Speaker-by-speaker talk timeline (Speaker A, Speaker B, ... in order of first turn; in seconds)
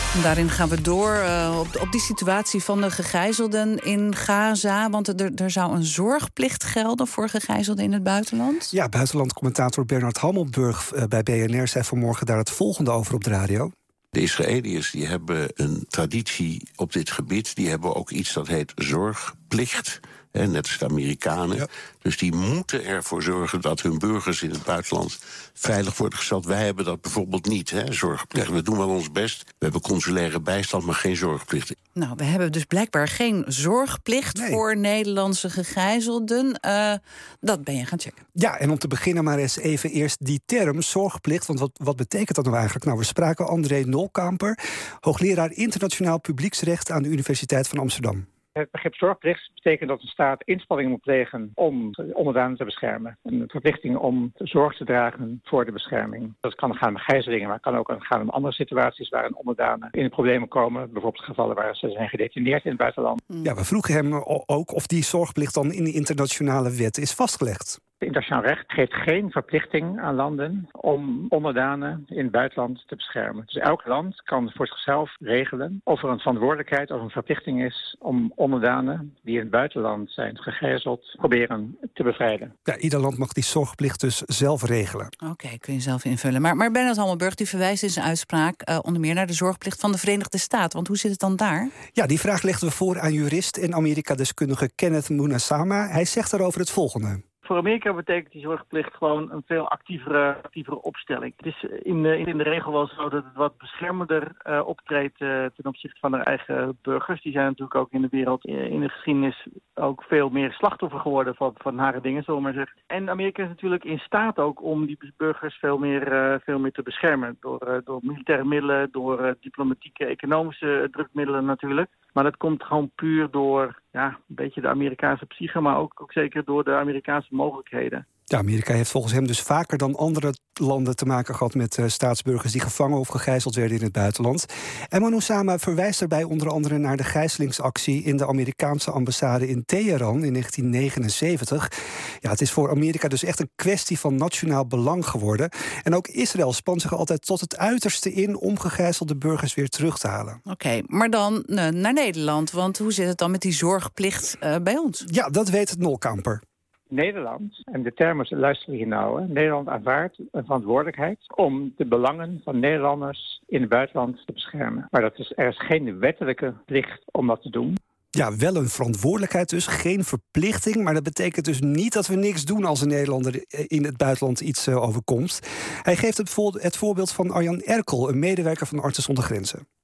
Speaker A: 0.1-8.7, 31.9-38.2, 85.2-91.7, 150.5-155.0
Speaker B: 8.7-13.7, 34.3-34.6, 38.4-48.2, 63.4-67.8, 82.7-85.1, 91.9-97.2, 128.3-141.7, 142.2-150.4, 155.1-156.4, 168.1-179.6
Speaker C: 14.1-31.8
Speaker D: 48.5-63.2, 68.0-82.5, 156.9-167.8
Speaker E: 97.4-128.0